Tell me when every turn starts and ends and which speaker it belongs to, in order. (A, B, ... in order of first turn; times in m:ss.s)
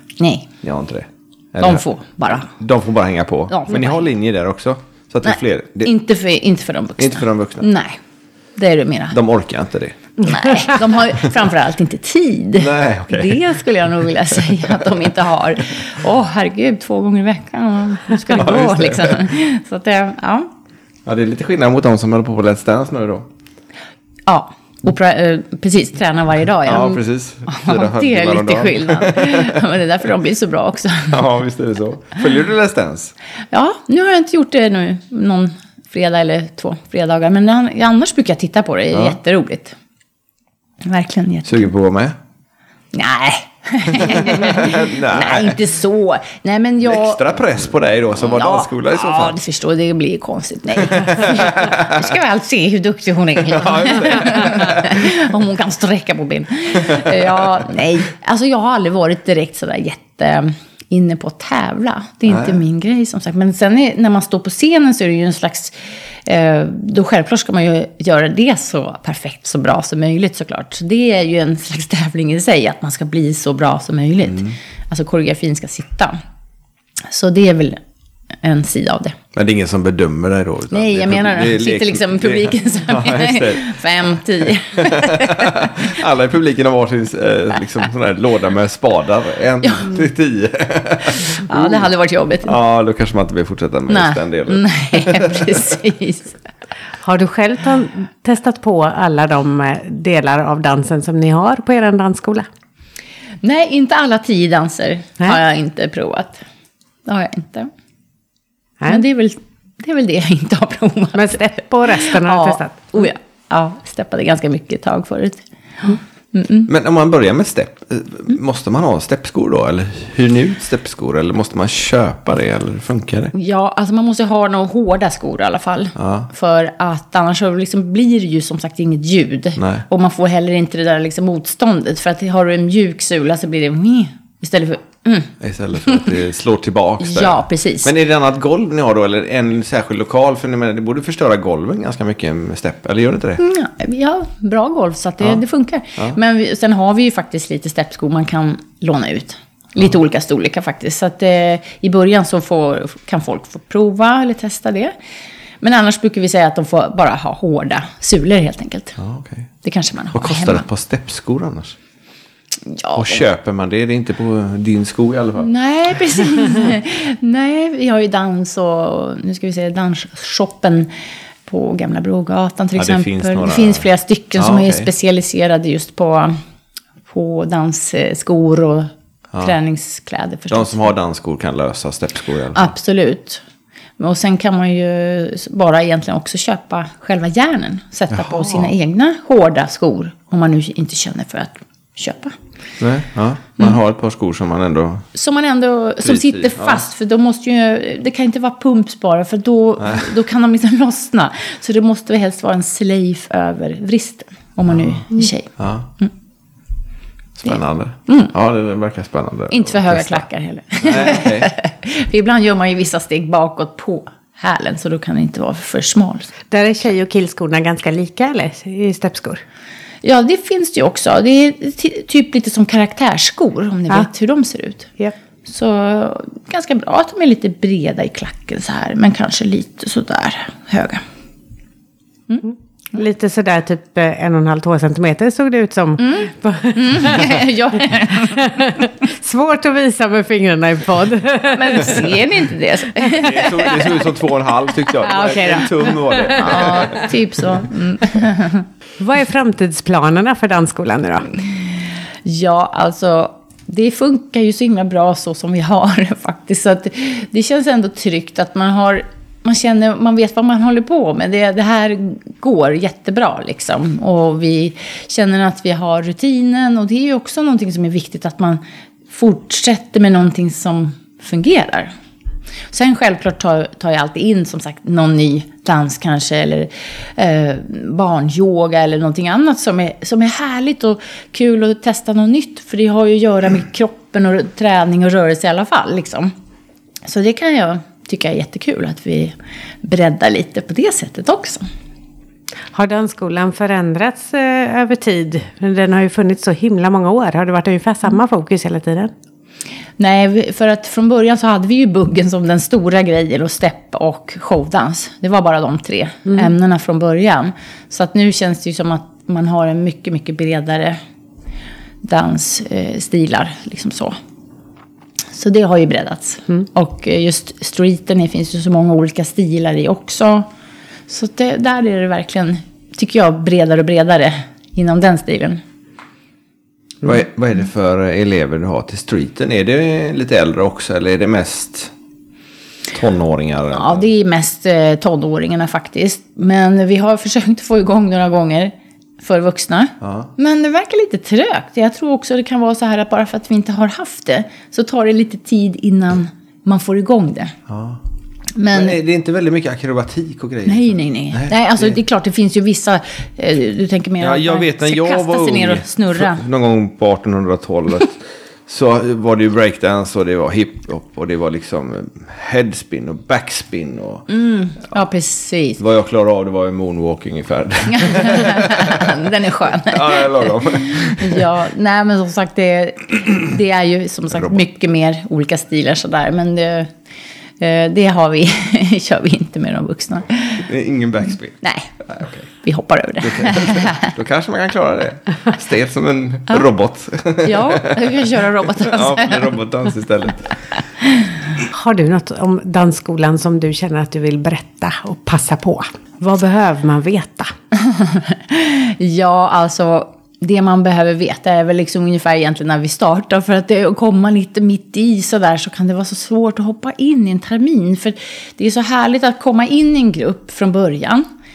0:00.2-0:00.5 A
0:00.6-0:05.9 B
0:01.6-0:02.5 A
0:03.5-0:04.0 A
0:05.2-0:08.0 A
0:07.0-0:07.7 B
0:08.6-0:09.2 A
0:09.1-0:10.1 B
0:10.2-0:20.5 A
0:12.6-0:13.4 B
0:18.3-0:19.3 B
0:21.0-0:23.3 B
0:24.3-0:31.2 A
0:26.6-0:29.6 B
0:31.1-0:33.1 B
0:33.5-0:39.8 A
0:40.8-0:41.7 A
0:41.4-0:42.2 B
0:42.9-0:47.2 A
0:43.9-0:45.6 B
0:46.8-0:49.4 B
0:48.2-1:16.2 A
0:50.9-0:52.0 B
0:53.4-0:55.0 B
0:56.9-0:57.2 B
1:02.3-1:02.6 B
1:17.1-1:17.8 A
1:18.4-1:19.2 A
1:19.3-1:23.7 B
1:20.7-1:25.9 A
1:24.4-1:31.8 B
1:29.6-1:29.9 A
1:31.3-1:32.6 A
1:32.4-1:35.6 B
1:33.9-1:36.4 A
1:37.0-1:42.5 C
1:43.4-1:46.4 A
1:47.0-1:47.7 A
1:48.9-1:56.7 A
1:51.1-1:53.0 C
1:56.7-2:03.3 B
2:03.3-2:15.3 A
2:06.0-2:06.3 B
2:15.4-2:23.4 B
2:15.8-2:16.1 A
2:17.0-2:17.9 A
2:23.4-2:34.9 A
2:35.6-2:39.0 A
2:39.0-2:39.5 B
2:39.6-2:40.6 A
2:40.1-2:41.8 B
2:42.7-2:43.3 A
2:42.9-2:45.5 B
2:45.4-2:50.9 A
2:51.4-2:56.4 A
2:52.8-2:53.8 B
2:54.4-2:54.9 B
2:57.1-3:00.9 A
3:00.5-3:02.7 B
3:02.5-3:03.4 A
3:04.0-3:12.3 A
3:08.1-3:08.7 B
3:12.8-3:15.1 B
3:15.1-3:26.1 A
3:16.0-3:16.8 B
3:19.8-3:20.1 B
3:24.7-3:25.0 B
3:25.6-3:25.9 B
3:27.4-3:30.2 B
3:28.1-3:28.3 A
3:29.5-3:36.3 A
3:30.8-3:31.5 B
3:36.5-3:39.4 C
3:40.0-3:44.9 A
3:45.4-3:51.0 A
3:52.9-3:57.4 C
3:56.0-3:58.9 A
3:58.1-4:02.1 C
4:01.5-4:04.0 A
4:03.1-4:07.0 B
4:05.0-4:06.7 C
4:06.3-4:08.7 A
4:09.0-4:11.3 C
4:12.2-4:31.9 A
4:32.7-4:46.3 A
4:47.0-4:51.7 A
4:52.7-4:59.1 C
5:00.0-5:11.0 A
5:12.0-5:14.2 A
5:15.3-5:20.5 A
5:21.1-5:25.6 A
5:27.0-5:31.9 B
5:32.9-5:34.1 B
5:33.7-5:47.5 A
5:40.0-5:40.3 B
5:47.7-5:48.0 B
5:48.6-5:49.0 A
5:48.7-5:51.9 B
5:50.6-5:56.4 A
5:54.2-6:04.2 B
6:04.3-6:05.8 A
6:05.8-6:09.2 B
6:07.9-6:16.9 A
6:09.8-6:11.5 B
6:17.6-6:20.7 A
6:20.6-6:22.5 B
6:21.6-6:21.9 A
6:22.6-6:24.1 A
6:23.2-6:28.2 B
6:27.4-6:29.5 A
6:28.8-6:30.5 B
6:31.7-6:37.5 C
6:37.8-6:51.2 A